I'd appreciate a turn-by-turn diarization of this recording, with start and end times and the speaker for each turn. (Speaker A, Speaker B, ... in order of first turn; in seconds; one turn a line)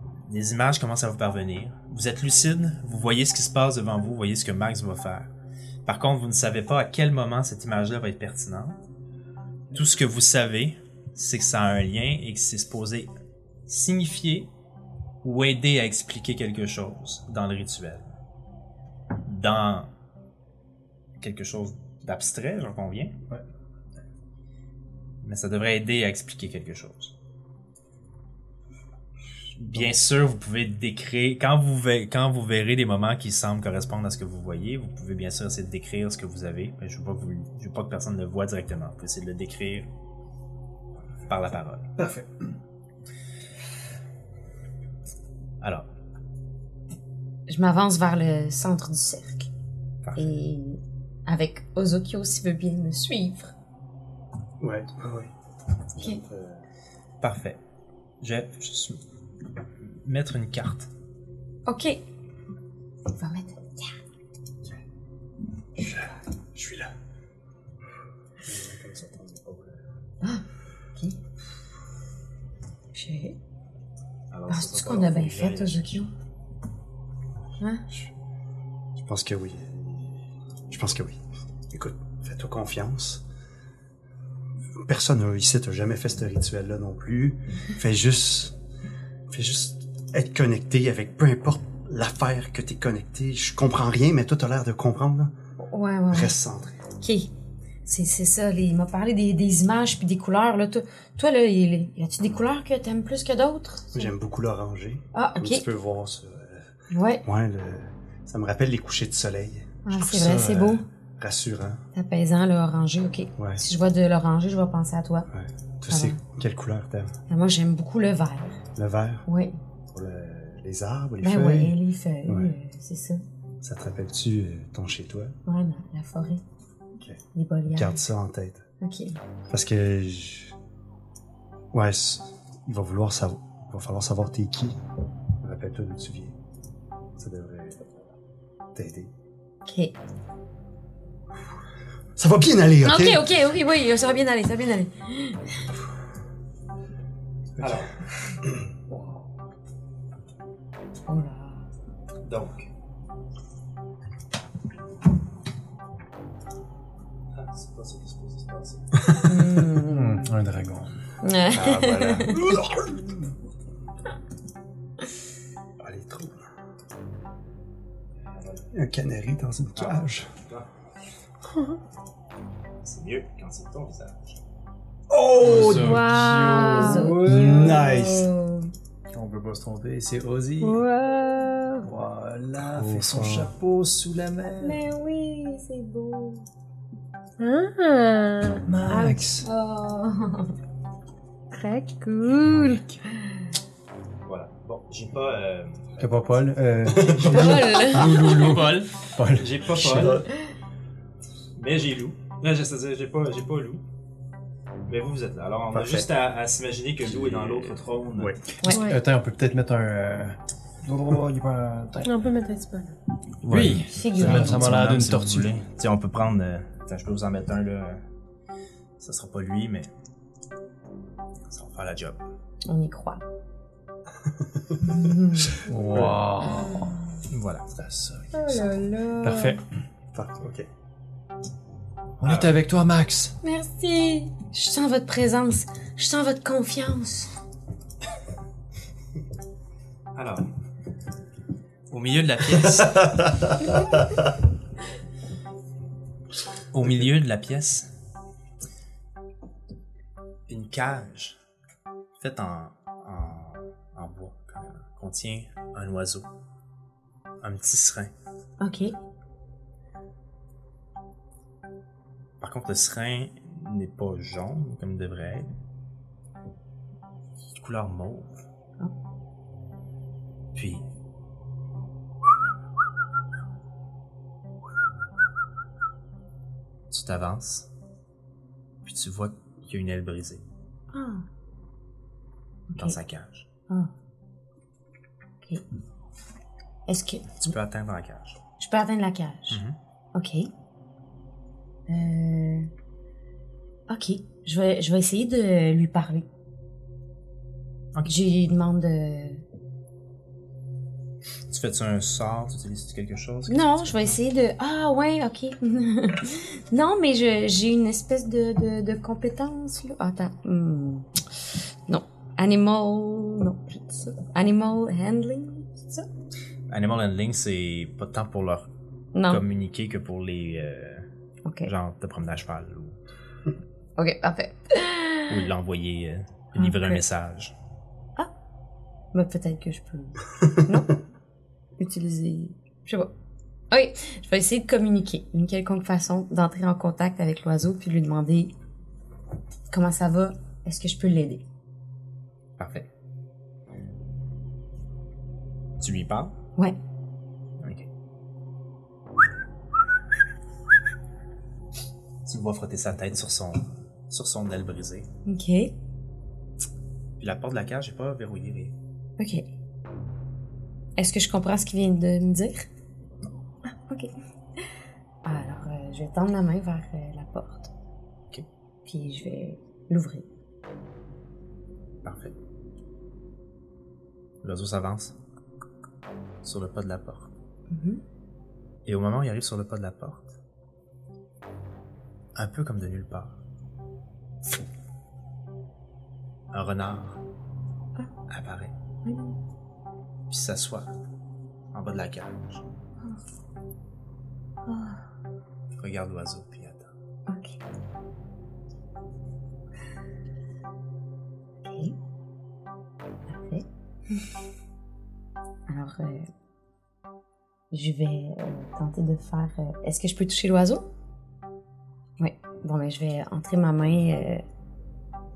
Speaker A: 0.2-5.3
Speaker A: 5.8-8.8
Speaker A: 9.7-13.1
Speaker A: 13.7-14.5
Speaker A: 15.2-18.1
Speaker A: 19.2-19.9
Speaker A: 21.2-23.1
Speaker A: 25.2-27.1
Speaker A: 29.6-39.9
Speaker A: 41.3-41.9
Speaker B: 42.0-42.3
Speaker A: 45.6-45.9
Speaker C: 47.5-49.5
Speaker A: 50.0-50.3
Speaker C: 50.2-53.5
Speaker D: 54.6-55.3
Speaker D: 56.0-56.6
Speaker A: 57.2-57.6
Speaker A: 58.2-59.0
Speaker A: 59.8-60.9
Speaker C: 61.7-62.0
Speaker C: 63.1-64.0
Speaker D: 65.8-66.9
Speaker D: 68.5-69.8
Speaker C: 72.9-73.4
Speaker A: 74.3-76.1
Speaker C: 74.5-76.1
Speaker D: 79.0-81.2
Speaker D: 81.7-83.2
Speaker D: 84.8-88.5
Speaker D: 89.3-95.3
Speaker C: 95.6-96.3
Speaker D: 96.1-96.8
Speaker C: 97.0-97.3
Speaker C: 97.8-104.1
Speaker D: 103.9-106.7
Speaker C: 105.1-105.7
Speaker C: 106.9-107.2
Speaker D: 107.2-110.4
Speaker C: 109.8-110.8
Speaker B: 110.0-110.8
Speaker D: 111.2-111.8
Speaker C: 111.9-115.3
Speaker D: 113.4-113.6
Speaker D: 115.3-117.2
Speaker C: 115.9-116.2
Speaker C: 117.3-118.6
Speaker D: 118.8-119.2
Speaker C: 119.3-119.6
Speaker D: 119.9-122.5
Speaker C: 121.2-123.2
Speaker D: 123.6-125.3
Speaker C: 125.5-126.4
Speaker C: 127.3-128.0
Speaker D: 127.7-128.6
Speaker C: 128.8-129.2
Speaker D: 129.5-130.6
Speaker D: 131.7-134.8
Speaker D: 135.4-136.3
Speaker D: 137.2-137.9
Speaker D: 138.8-139.1
Speaker C: 139.7-139.9
Speaker D: 142.2-143.3
Speaker C: 142.8-145.6
Speaker A: 147.6-147.9
Speaker B: 148.9-149.3
Speaker C: 151.1-151.7
Speaker A: 152.2-152.7
Speaker A: 157.3-158.9
Speaker D: 159.0-159.3
Speaker C: 159.2-160.2
Speaker B: 159.7-160.9
Speaker C: 161.2-162.4
Speaker D: 161.5-163.2
Speaker D: 165.8-166.4
Speaker A: 168.3-168.7
Speaker D: 168.7-170.3
Speaker A: 169.8-170.7
Speaker E: 171.5-171.8
Speaker A: 172.8-174.4
Speaker D: 175.1-176.1
Speaker B: 175.3-177.9
Speaker C: 175.5-178.7
Speaker D: 177.1-178.3
Speaker B: 179.1-180.8
Speaker E: 180.6-181.2
Speaker C: 181.0-181.9
Speaker B: 181.8-184.8
Speaker D: 182.6-183.5
Speaker C: 184.6-186.5
Speaker E: 187.4-189.3
Speaker B: 188.6-189.5
Speaker C: 189.4-190.5
Speaker E: 191.5-192.7
Speaker C: 192.2-193.2
Speaker B: 192.5-193.0
Speaker A: 194.2-196.0
Speaker B: 196.0-200.2
Speaker D: 196.8-198.3
Speaker C: 197.3-198.5
Speaker A: 198.2-200.2
Speaker D: 199.8-200.3
Speaker A: 201.6-203.8
Speaker A: 204.9-208.4
Speaker D: 205.7-206.1
Speaker D: 207.2-208.4
Speaker E: 208.7-209.0
Speaker B: 208.7-212.2
Speaker E: 212.0-213.0
Speaker A: 213.4-218.0
Speaker B: 213.5-215.6
Speaker C: 213.9-214.7
Speaker A: 219.0-219.9
Speaker A: 221.5-222.2
Speaker C: 222.7-223.2
Speaker C: 224.8-225.7
Speaker B: 225.6-227.0
Speaker C: 226.4-226.9
Speaker A: 227.3-227.7
Speaker B: 227.8-228.7
Speaker C: 228.3-229.6
Speaker B: 229.2-229.6
Speaker D: 230.1-230.7
Speaker B: 232.2-233.3
Speaker A: 232.2-232.6
Speaker C: 233.4-237.3
Speaker A: 240.2-240.5
Speaker A: 241.9-243.3
Speaker A: 246.7-247.9
Speaker A: 250.5-251.4
Speaker A: 252.2-256.3
Speaker A: 257.4-258.1
Speaker C: 258.6-258.9
Speaker A: 262.4-265.5
Speaker A: 267.5-268.4
Speaker A: 270.5-270.9
Speaker A: 276.9-277.7
Speaker A: 278.8-280.4
Speaker C: 280.9-281.2
Speaker C: 282.7-283.0
Speaker A: 282.8-283.5
Speaker C: 286.9-287.5
Speaker A: 287.4-288.4
Speaker C: 288.6-289.6
Speaker A: 289.5-289.8
Speaker C: 290.1-290.5
Speaker C: 291.9-292.7
Speaker C: 293.9-296.3
Speaker C: 298.1-299.4
Speaker A: 301.5-304.2
Speaker C: 303.5-311.1
Speaker C: 311.9-316.1
Speaker A: 316.7-318.7
Speaker C: 319.1-319.4
Speaker A: 319.3-321.1
Speaker C: 321.4-321.7
Speaker A: 321.6-323.0
Speaker C: 324.0-325.4
Speaker A: 325.3-327.5
Speaker C: 326.6-327.0
Speaker C: 329.1-330.9
Speaker C: 331.8-333.1
Speaker C: 333.7-338.5
Speaker C: 339.7-341.4
Speaker A: 342.6-342.9
Speaker A: 345.8-346.3
Speaker A: 347.6-347.9
Speaker A: 352.2-355.1
Speaker C: 355.3-355.7
Speaker A: 357.2-358.7
Speaker C: 359.2-359.4
Speaker C: 361.0-362.7
Speaker C: 363.7-364.1
Speaker C: 365.2-367.7
Speaker C: 368.9-370.3
Speaker A: 372.0-372.4
Speaker A: 374.4-375.1
Speaker A: 376.4-377.3
Speaker C: 377.7-378.0
Speaker A: 378.9-380.4
Speaker A: 382.4-383.4
Speaker A: 386.5-387.2
Speaker A: 388.3-388.7
Speaker C: 389.1-389.4
Speaker A: 390.3-390.9
Speaker A: 391.7-392.7
Speaker C: 394.7-395.0
Speaker A: 395.7-396.9
Speaker C: 397.3-397.6
Speaker C: 401.6-401.9
Speaker C: 403.3-404.3
Speaker C: 405.7-406.3
Speaker C: 407.7-410.9
Speaker C: 412.2-414.4